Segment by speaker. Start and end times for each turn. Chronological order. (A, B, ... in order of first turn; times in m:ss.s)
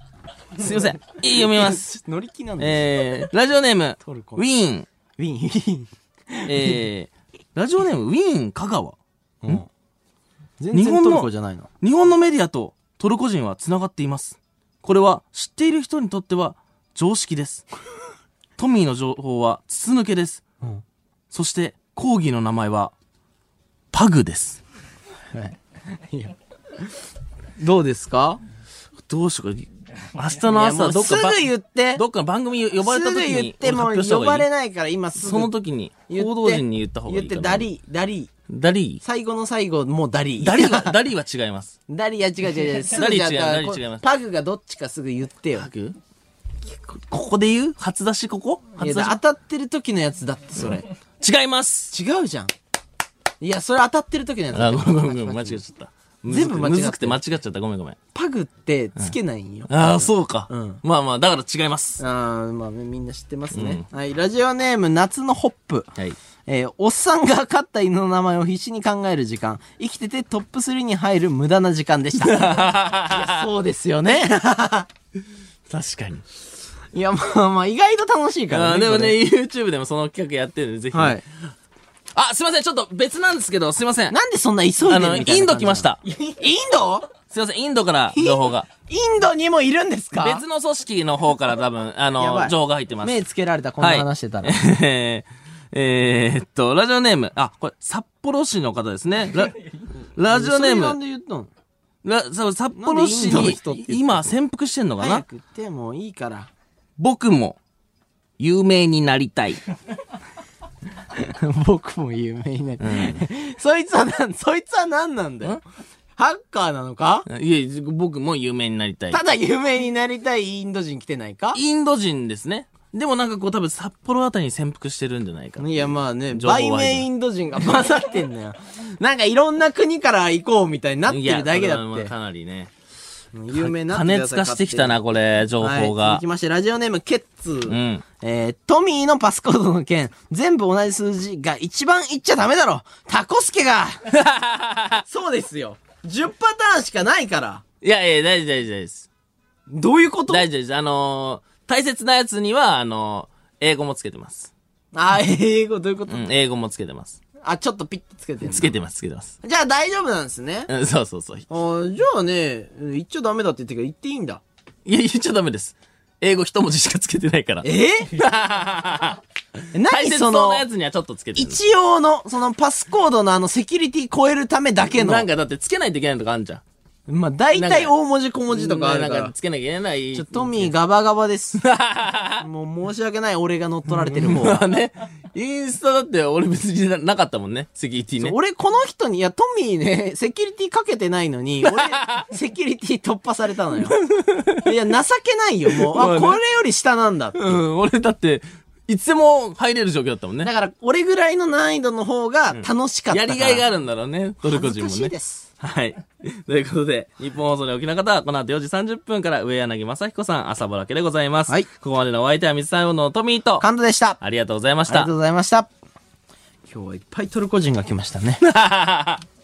0:00.6-0:01.8 A
0:01.3-0:03.0 B
0:02.6-0:04.9 A
0:04.0-0:04.4 B
0:05.2-0:06.8 B
0:06.4-0:09.6 A
0:09.4-0:09.7 B
0:10.6-0:11.7 B
0:10.7-0:11.3 A
0:11.8-0:17.6 A
0:18.6-0:20.4 A
0:21.3-0:22.9 A
0:23.9-0:24.6 A
0:25.3-0:26.9 B
0:27.6-0:28.4 B
0:29.1-0:31.4 A
0:30.5-0:32.0 B
0:31.9-0:34.5 A
0:32.8-0:35.5 B
0:35.2-0:37.7 A
0:36.1-0:38.3 B
0:38.5-0:39.0 A
0:39.0-0:41.0 B
0:40.4-0:41.7 A
0:41.9-0:45.7 B
0:42.9-0:44.0 A
0:45.5-0:46.0 A
0:47.1-0:49.2 A
0:48.8-0:50.8 B
0:50.6-0:51.9 A
0:51.9-0:52.5 B
0:53.4-0:55.6 B
0:54.5-0:58.0 A
0:56.3-0:57.2 B
0:58.1-1:00.8 B
0:59.7-1:02.0 A
1:02.0-1:05.9 B
1:03.5-1:03.8 A
1:06.4-1:14.9 B
1:12.2-1:13.4 A
1:15.7-1:16.2 A
1:16.9-1:19.2 B
1:18.5-1:21.2 A
1:20.9-1:21.2 B
1:22.1-1:24.2 A
1:24.1-1:27.1 B
1:24.9-1:26.0 A
1:27.3-1:28.7 A
1:28.1-1:30.4 B
1:30.2-1:33.2 A
1:32.2-1:34.6 B
1:33.8-1:39.6 A
1:40.1-1:41.0 A
1:40.3-1:41.5 B
1:42.0-1:45.2 A
1:42.7-1:44.3 B
1:45.0-1:46.5 B
1:47.0-1:47.6 A
1:48.4-1:49.6 A
1:51.1-1:55.6 B
1:52.8-1:53.2 A
1:56.2-1:57.2 B
1:57.3-1:59.2 A
1:59.1-2:01.6 B
2:01.5-2:07.1 A
2:05.6-2:12.1 B
2:11.1-2:12.7 A
2:13.3-2:15.0 B
2:13.5-2:16.2 A
2:15.6-2:24.1 B
2:17.7-2:18.0 A
2:24.1-2:25.0 A
2:25.0-2:27.6 B
2:27.8-2:29.1 A
2:29.7-2:30.4 B
2:30.3-2:34.5 A
2:34.9-2:36.2 B
2:36.1-2:37.2 A
2:37.4-2:38.7 B
2:38.4-2:39.3 A
2:39.4-2:40.7 B
2:40.7-2:41.5 A
2:41.5-2:44.4 B
2:44.8-2:49.2 A
2:47.6-2:48.1 B
2:49.7-2:50.6 B
2:49.8-2:51.6 A
2:51.4-2:55.3 B
2:54.9-2:56.6 A
2:57.1-2:59.3 B
2:57.5-2:57.9 A
2:58.5-3:00.7 A
3:00.1-3:01.6 B
3:01.6-3:02.4 A
3:02.4-3:04.6 B
3:03.9-3:08.3 A
3:08.2-3:14.0 B
3:11.7-3:12.3 A
3:14.0-3:14.6 A
3:14.6-3:17.6 B
3:15.7-3:16.4 A
3:17.4-3:20.5 A
3:20.4-3:23.6 B
3:22.5-3:33.7 A
3:24.4-3:25.5 B
3:33.6-3:34.2 B
3:34.2-3:35.1 A
3:34.9-3:35.7 B
3:36.6-3:38.4 B
3:38.4-3:39.2 A